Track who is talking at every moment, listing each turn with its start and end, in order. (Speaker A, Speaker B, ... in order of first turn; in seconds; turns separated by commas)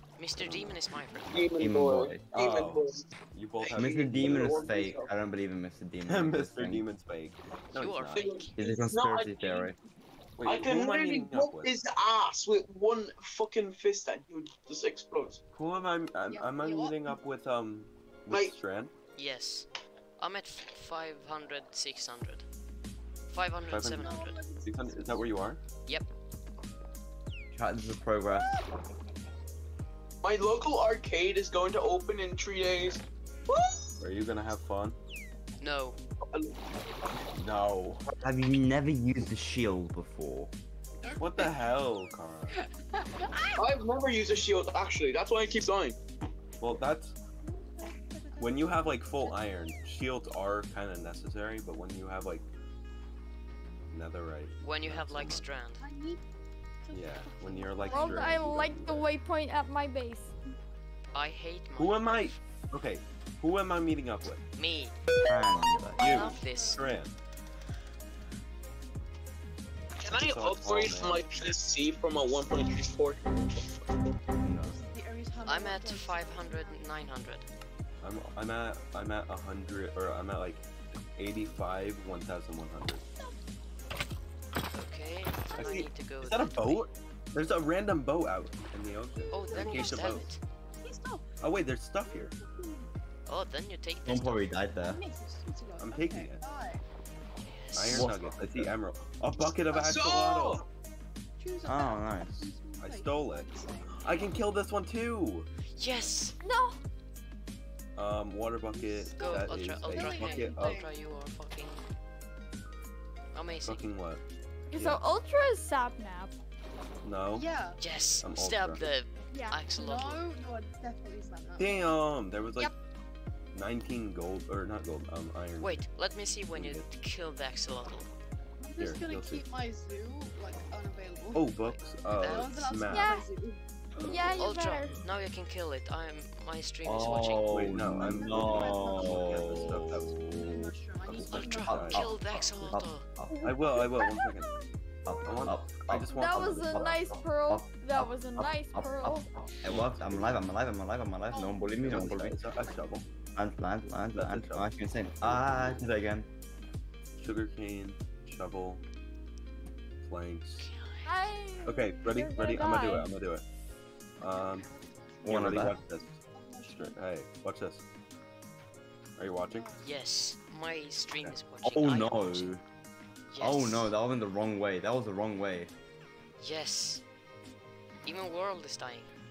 Speaker A: 0.2-1.4, Speaker B: 0.4-0.8, Speaker C: 1.3-3.0, Speaker D: 1.6-2.2, Speaker B: 2.3-4.9, Speaker C: 3.6-5.1, Speaker D: 3.7-6.8, Speaker B: 6.0-8.3, Speaker A: 7.7-8.6, Speaker C: 8.2-9.7, Speaker D: 8.6-9.8, Speaker B: 10.4-11.7, Speaker C: 10.4-15.4, Speaker B: 15.5-18.9, Speaker E: 16.3-17.0, Speaker C: 18.3-18.6, Speaker A: 19.1-19.7, Speaker A: 20.2-22.4, Speaker A: 23.3-24.4, Speaker B: 23.7-25.6, Speaker E: 23.9-25.2, Speaker D: 27.5-28.5, Speaker E: 28.3-28.7, Speaker C: 30.2-33.9, Speaker B: 34.0-35.0, Speaker A: 35.6-36.0, Speaker B: 37.3-38.0, Speaker D: 38.1-40.5, Speaker E: 41.0-41.6, Speaker B: 41.2-42.6, Speaker E: 42.6-43.6, Speaker C: 43.5-46.0, Speaker B: 46.6-47.1, Speaker E: 47.4-49.5, Speaker B: 48.4-52.4, Speaker B: 53.9-55.4, Speaker A: 54.6-55.8, Speaker E: 55.8-56.2, Speaker E: 56.8-58.7, Speaker B: 56.9-59.1, Speaker F: 57.9-60.4, Speaker A: 61.1-62.4, Speaker B: 61.8-64.4, Speaker A: 64.5-64.9, Speaker D: 65.2-66.2, Speaker E: 65.6-66.9, Speaker A: 66.0-66.8, Speaker B: 66.0-67.1, Speaker C: 70.0-74.1, Speaker B: 70.1-71.2, Speaker D: 74.4-74.8, Speaker E: 74.6-77.1, Speaker A: 75.5-77.5, Speaker B: 78.0-83.0, Speaker A: 84.7-86.9, Speaker E: 85.5-85.8, Speaker B: 85.6-90.3, Speaker A: 89.3-90.4, Speaker E: 89.3-90.3, Speaker E: 90.8-91.3, Speaker B: 91.4-92.3, Speaker E: 92.1-92.9, Speaker A: 93.3-94.5, Speaker D: 94.0-95.0, Speaker E: 94.8-96.8, Speaker B: 95.8-96.4, Speaker A: 97.4-98.1, Speaker B: 97.7-100.6, Speaker D: 97.9-98.7, Speaker C: 99.7-100.6, Speaker E: 101.4-104.3, Speaker D: 101.6-102.5, Speaker B: 102.8-105.5, Speaker A: 105.8-106.4, Speaker F: 106.4-106.8, Speaker B: 108.0-110.8, Speaker E: 108.7-111.1, Speaker A: 109.2-111.8, Speaker A: 113.3-113.9, Speaker B: 113.6-114.2, Speaker F: 114.7-116.3, Speaker B: 114.7-115.0, Speaker B: 117.0-117.4, Speaker E: 117.3-117.8, Speaker A: 117.8-120.2, Speaker B: 118.2-118.8, Speaker F: 119.3-119.6, Speaker E: 119.8-122.0, Speaker B: 121.6-122.7, Speaker B: 123.5-125.8, Speaker A: 125.6-128.1, Speaker B: 126.5-126.8, Speaker E: 128.6-134.3, Speaker B: 128.8-129.4, Speaker B: 131.3-133.2, Speaker A: 132.2-132.5, Speaker F: 132.9-133.3, Speaker F: 134.0-135.0, Speaker A: 134.3-137.6, Speaker D: 136.8-143.4, Speaker B: 137.5-140.1, Speaker E: 137.8-142.1, Speaker B: 141.1-142.0, Speaker A: 141.2-143.1, Speaker F: 143.3-145.5, Speaker B: 143.4-144.5, Speaker D: 145.0-152.4, Speaker B: 145.2-146.9, Speaker F: 146.1-149.3, Speaker B: 149.6-150.4, Speaker E: 151.3-152.9, Speaker B: 151.8-153.0, Speaker D: 153.3-156.3, Speaker B: 154.1-154.7, Speaker B: 155.2-155.8, Speaker B: 157.2-158.8, Speaker B: 160.0-160.7, Speaker A: 160.6-161.3, Speaker F: 161.1-163.1, Speaker B: 161.6-163.4, Speaker B: 164.2-164.7, Speaker E: 164.3-167.0, Speaker D: 165.2-165.8, Speaker B: 165.2-167.8, Speaker B: 169.2-169.7, Speaker E: 169.5-169.8, Speaker A: 169.8-172.5, Speaker D: 171.6-172.6, Speaker A: 173.3-173.9, Speaker D: 173.4-175.7, Speaker A: 176.4-177.0, Speaker A: 178.0-179.1